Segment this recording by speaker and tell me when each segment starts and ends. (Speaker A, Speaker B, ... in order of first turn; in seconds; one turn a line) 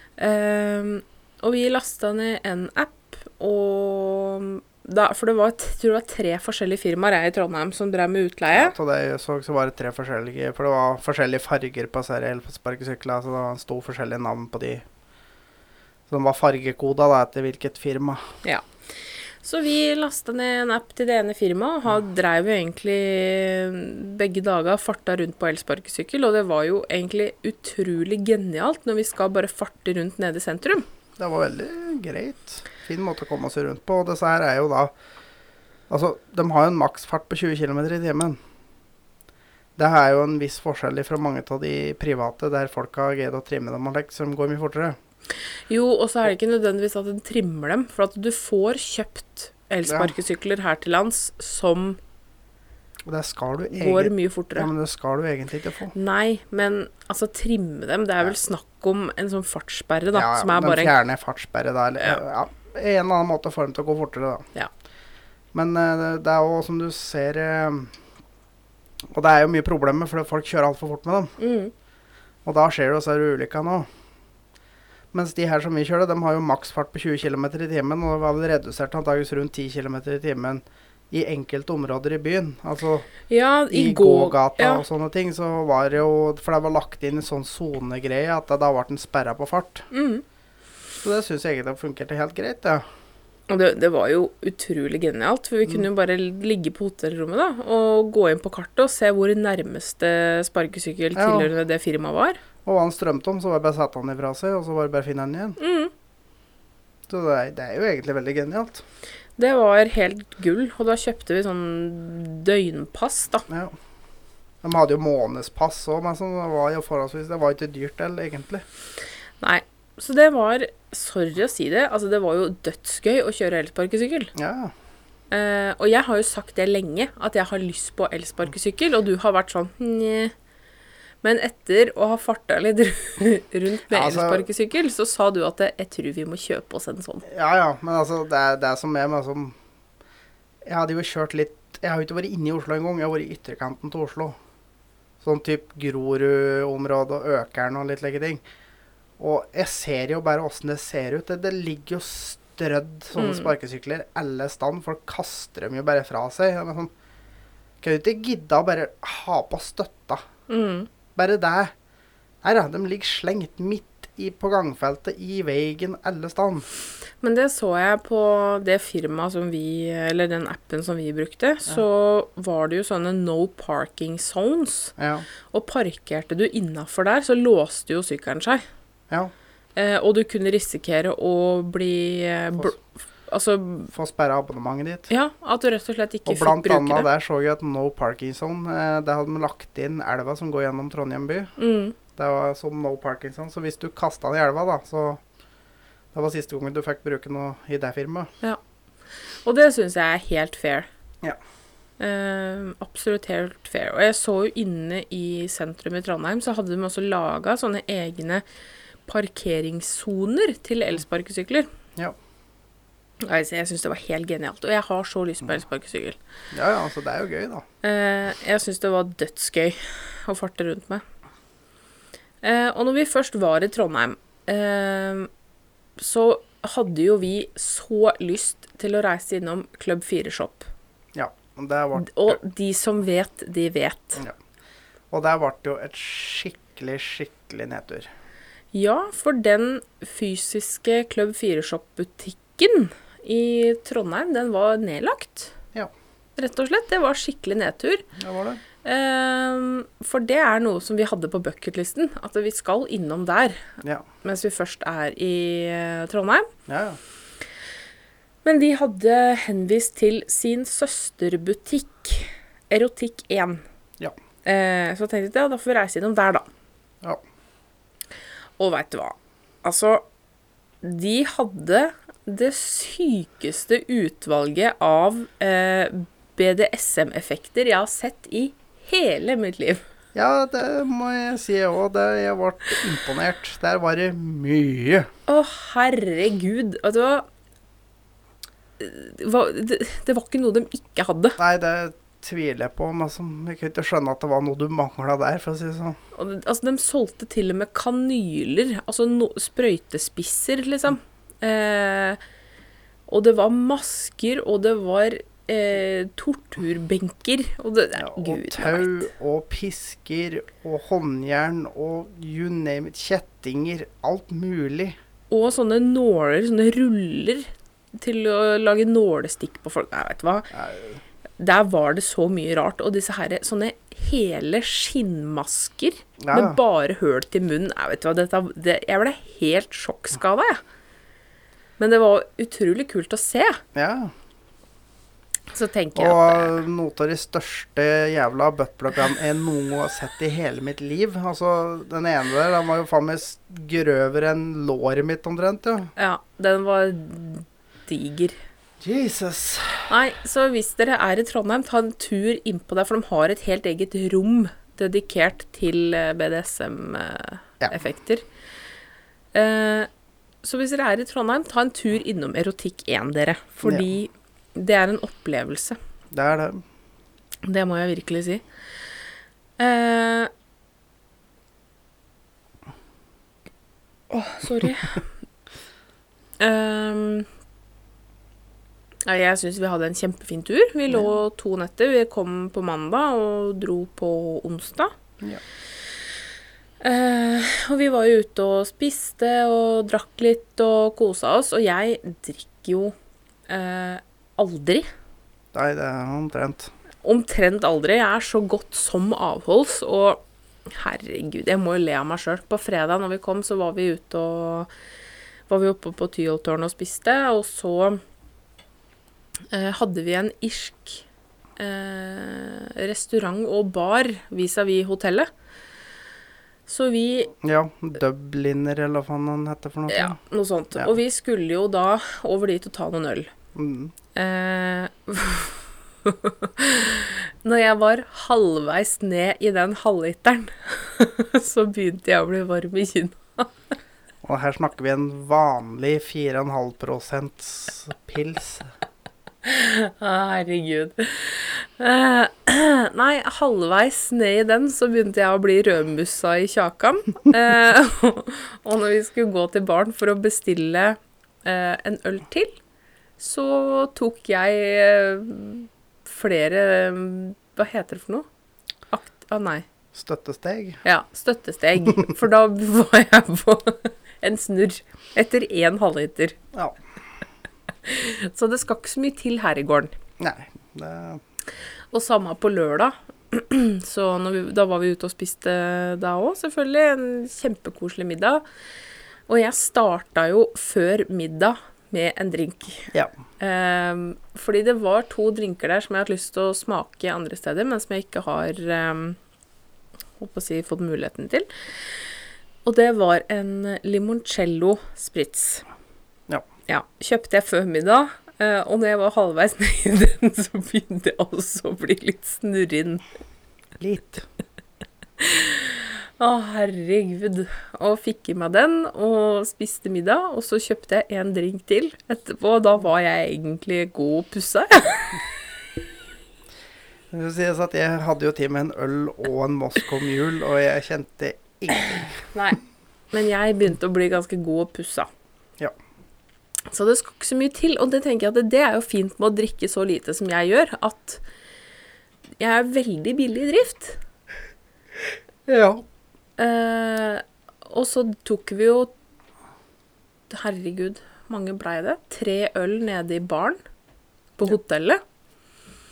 Speaker A: 0.2-8.7
Speaker B: 8.5-14.8
Speaker B: 16.1-18.2
Speaker A: 19.4-30.9
Speaker B: 31.2-34.9
Speaker B: 35.9-38.4
Speaker B: 39.8-45.0
Speaker A: 45.7-52.0
Speaker B: 49.9-50.1
Speaker B: 53.0-55.9
Speaker A: 53.7-54.7
Speaker A: 55.9-60.9
Speaker B: 60.1-64.5
Speaker B: 65.5-67.9
Speaker B: 69.1-71.3
Speaker A: 71.4-71.7
Speaker B: 72.4-73.9
Speaker B: 75.1-83.1
Speaker A: 83.3-84.8
Speaker B: 83.7-89.8
Speaker A: 89.9-90.2
Speaker B: 91.0-92.8
Speaker A: 93.5-102.4
Speaker B: 101.2-101.5
Speaker B: 102.6-105.6
Speaker A: 105.6-105.9
Speaker B: 107.1-108.8
Speaker A: 109.4-113.5
Speaker B: 113.5-113.7
Speaker B: 114.6-118.6
Speaker A: 119.4-124.3
Speaker B: 124.3-124.7
Speaker A: 125.3-130.3
Speaker A: 131.2-137.3
Speaker B: 133.9-134.4
Speaker B: 137.3-139.6
Speaker B: 140.6-144.4
Speaker B: 145.2-148.4
Speaker B: 149.2-156.9
Speaker A: 153.2-153.5
Speaker B: 157.8-160.2
Speaker A: 160.5-160.9
Speaker B: 161.2-161.7
Speaker B: 162.4-166.7
Speaker A: 167.2-174.9
Speaker B: 175.0-175.2
Speaker A: 175.5-178.6
Speaker A: 179.8-183.9
Speaker B: 183.9-185.1
Speaker A: 185.1-187.1
Speaker B: 186.2-191.5
Speaker A: 191.6-191.9
Speaker B: 192.1-195.2
Speaker B: 196.1-198.3
Speaker A: 199.4-200.9
Speaker A: 202.0-208.4
Speaker A: 209.1-211.7
Speaker A: 213.2-216.2
Speaker B: 216.5-217.6
Speaker A: 217.8-221.0
Speaker A: 222.4-225.3
Speaker A: 226.0-230.7
Speaker B: 231.1-232.4
Speaker A: 231.9-234.2
Speaker B: 235.1-238.1
Speaker A: 238.7-245.5
Speaker A: 246.4-248.1
Speaker B: 248.2-248.6
Speaker A: 248.8-256.5
Speaker B: 256.7-257.0
Speaker A: 258.4-263.6
Speaker A: 264.4-266.5
Speaker A: 268.6-270.0
Speaker A: 270.8-279.8
Speaker B: 280.1-285.1
Speaker A: 285.3-287.2
Speaker A: 288.8-291.4
Speaker B: 291.4-296.0
Speaker A: 296.1-302.2
Speaker A: 303.1-309.1
Speaker B: 307.9-314.9
Speaker A: 315.3-320.5
Speaker B: 320.5-321.0
Speaker A: 321.4-330.6
Speaker B: 326.2-326.6
Speaker A: 331.8-333.6
Speaker B: 333.7-334.1
Speaker A: 335.5-336.6
Speaker B: 335.9-345.9
Speaker A: 345.9-348.4
Speaker B: 348.8-349.9
Speaker A: 349.9-358.2
Speaker A: 359.3-359.9
Speaker A: 360.4-365.8
Speaker B: 366.1-366.6
Speaker A: 367.4-368.4
Speaker A: 369.6-370.3
Speaker A: 374.1-375.0
Speaker A: 376.4-377.3
Speaker A: 379.1-384.9
Speaker A: 386.8-392.9
Speaker A: 393.5-394.9
Speaker B: 395.5-396.7
Speaker A: 397.0-404.7
Speaker A: 405.5-408.0
Speaker A: 409.5-411.0
Speaker A: 411.6-415.3
Speaker A: 416.7-417.3
Speaker B: 417.4-420.2
Speaker A: 419.9-423.3
Speaker B: 423.5-423.9
Speaker A: 424.1-433.5
Speaker B: 434.2-438.7
Speaker A: 439.4-452.6
Speaker A: 453.2-458.3
Speaker A: 458.9-459.6
Speaker B: 459.9-460.8
Speaker A: 460.8-466.4
Speaker A: 467.8-469.9
Speaker B: 470.2-471.2
Speaker A: 471.9-478.4
Speaker A: 479.3-489.2
Speaker A: 490.2-491.5
Speaker A: 492.6-495.7
Speaker A: 496.7-503.0
Speaker B: 503.8-504.2
Speaker A: 505.2-515.2
Speaker B: 517.1-522.2
Speaker A: 522.3-522.6
Speaker A: 523.1-525.1
Speaker A: 526.7-531.2
Speaker A: 532.4-534.0
Speaker B: 535.5-535.8
Speaker A: 536.4-538.9
Speaker A: 540.3-543.6
Speaker A: 544.4-545.0